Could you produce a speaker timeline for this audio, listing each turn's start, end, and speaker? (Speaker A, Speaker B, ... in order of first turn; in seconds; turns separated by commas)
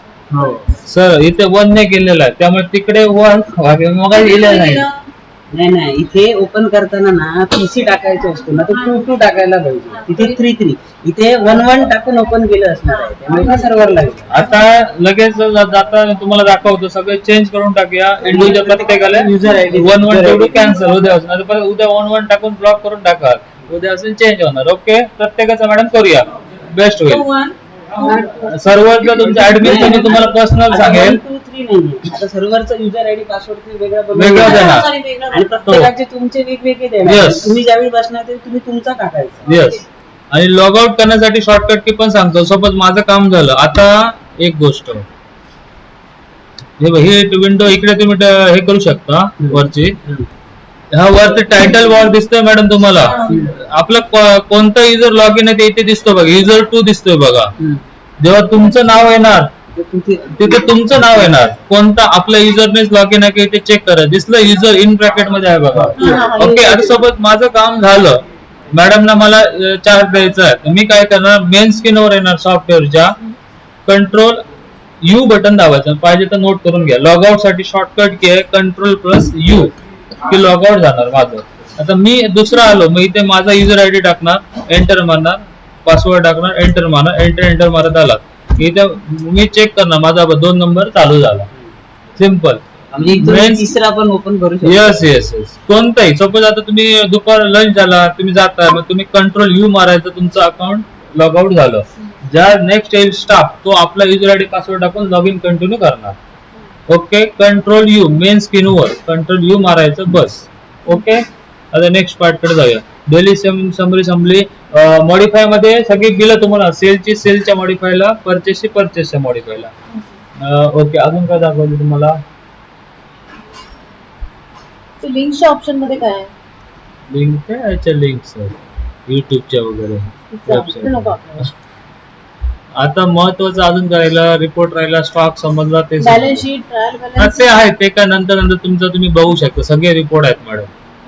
Speaker A: 0.3-0.7, Speaker B: 0.8-4.9, Speaker C: 4.1-4.9, Speaker A: 5.5-14.3, Speaker C: 8.7-9.0, Speaker C: 9.9-10.4, Speaker C: 12.9-14.5, Speaker B: 14.3-27.3, Speaker A: 18.2-20.7, Speaker C: 27.0-28.3, Speaker A: 28.0-28.5, Speaker B: 28.1-31.2, Speaker A: 29.1-39.5, Speaker C: 29.2-29.8, Speaker B: 34.1-34.9, Speaker C: 34.4-35.6, Speaker B: 35.6-35.9, Speaker B: 37.0-37.6, Speaker B: 39.5-45.0, Speaker B: 46.8-50.0, Speaker A: 49.4-50.3, Speaker B: 50.9-57.5, Speaker B: 58.2-59.5, Speaker A: 59.7-61.3, Speaker B: 60.3-73.2, Speaker A: 65.8-66.4, Speaker C: 66.0-66.9, Speaker B: 73.8-74.4, Speaker B: 75.0-91.5, Speaker B: 92.2-92.6, Speaker A: 92.9-95.1, Speaker B: 93.1-93.7, Speaker B: 94.6-106.2, Speaker B: 106.9-119.7, Speaker B: 120.4-122.2, Speaker C: 125.0-126.3, Speaker B: 127.1-128.6, Speaker B: 129.1-131.2, Speaker C: 130.3-131.2, Speaker B: 132.8-136.5, Speaker C: 136.0-137.5, Speaker B: 137.2-140.7